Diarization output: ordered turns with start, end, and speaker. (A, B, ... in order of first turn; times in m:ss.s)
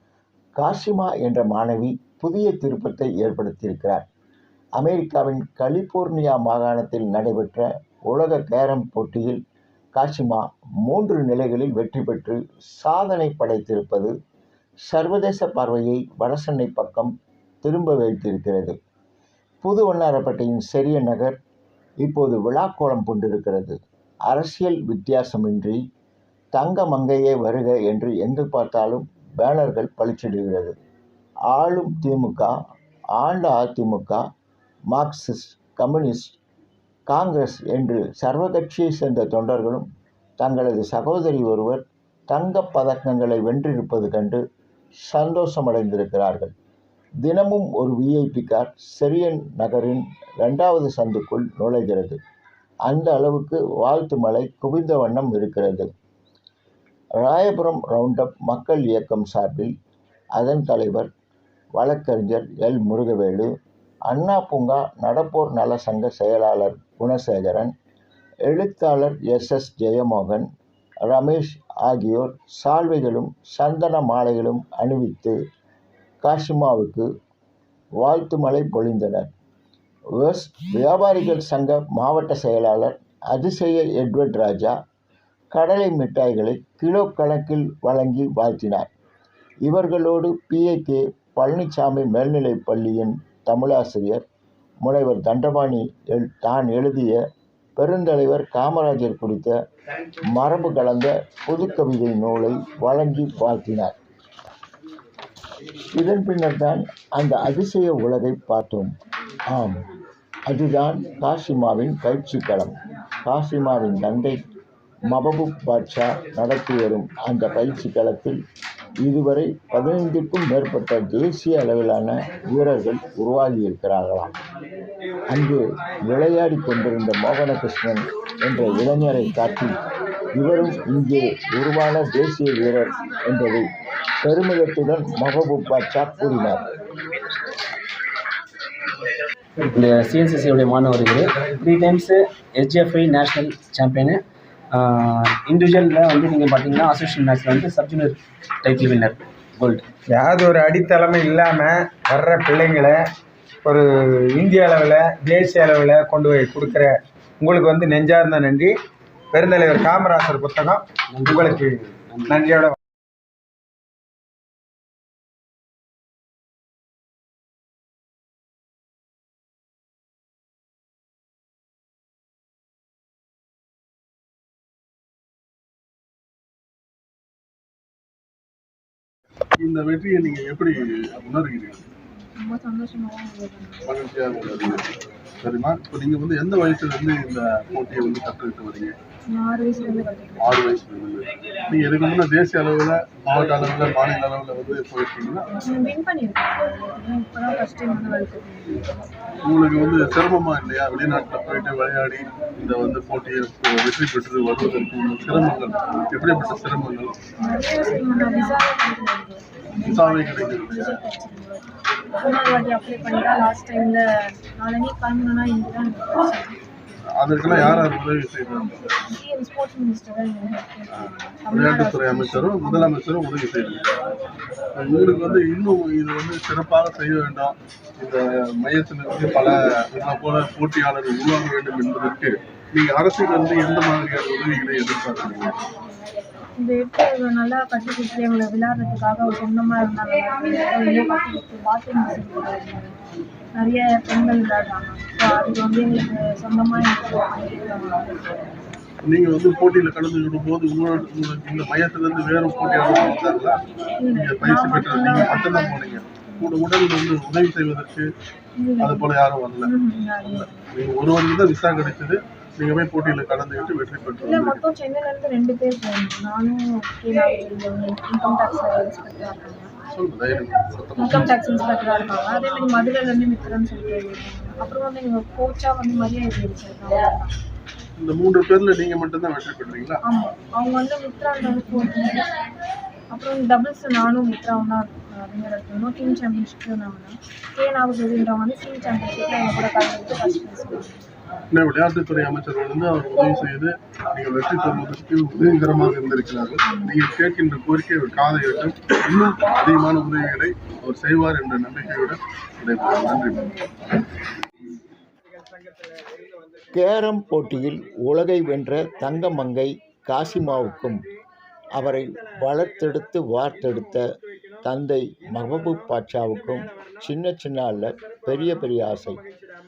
0:00.6-0:04.1 A
0:04.8-0:09.4 A
0:10.0-0:14.1 A
0:14.9-0:18.8 A
0:19.6-0:21.4 A
0:22.0-0:25.8 A
0:26.6-0:30.8 A
0:31.5-0:32.5 A
0:33.2-0:34.2 A
0:34.9-0:36.4 A
0:37.1-0:39.9 A
0:40.4-0:44.4 A
0:45.0-0:46.5 A
0:47.2-0:52.2 A
0:52.9-0:55.9 A
0:57.2-0:59.7 A
1:00.4-1:01.1 A
1:01.8-1:03.5 A
1:04.1-1:07.7 A
1:08.5-1:10.5 A
1:11.1-1:15.4 A
1:16.2-1:17.1 A
1:18.0-1:19.3 A
1:20.2-1:24.8 A
1:25.5-1:28.9 A
1:29.7-1:34.2 A
1:34.8-1:37.2 A
1:37.8-1:39.6 A
1:40.3-1:44.0 A
1:46.0-1:48.9 A
1:49.5-1:49.8 A
1:50.5-1:54.4 A
1:55.1-1:58.4 A
1:59.0-2:04.3 A
2:05.3-2:09.8 A
2:10.4-2:13.7 A
2:14.2-2:16.6 A
2:19.7-2:29.9 B
2:30.1-2:33.0 C
2:33.6-2:38.8 C
2:39.3-2:41.7 C
2:41.1-2:42.3 B
2:42.3-2:42.8 C
2:59.6-3:01.8 D
3:02.4-3:03.9 E
3:03.8-3:09.0 D
3:09.3-3:10.7 E
3:10.4-3:15.5 D
3:15.6-3:18.9 E
3:19.4-3:27.2 D
3:27.4-3:36.6 E
3:29.8-3:31.0 D
3:37.1-3:38.8 D
3:37.5-3:37.9 E
3:38.6-3:43.0 E
3:41.5-3:43.9 D
3:44.8-3:55.6 D
3:56.6-4:03.0 E
4:03.6-4:08.3 E
4:09.0-4:18.1 D
4:14.0-4:16.6 E
4:18.6-4:19.1 E
4:18.8-4:19.7 D
4:19.6-4:20.7 E
4:20.7-4:24.6 D
4:24.2-4:29.7 E
4:29.9-4:31.3 D
4:31.0-4:37.3 E
4:38.0-4:40.0 D
4:40.0-4:42.4 E
4:43.1-4:51.0 E
4:51.5-5:03.6 D
4:56.6-4:57.0 E
5:06.7-5:11.0 A
5:11.8-5:14.0 A
5:14.6-5:19.2 A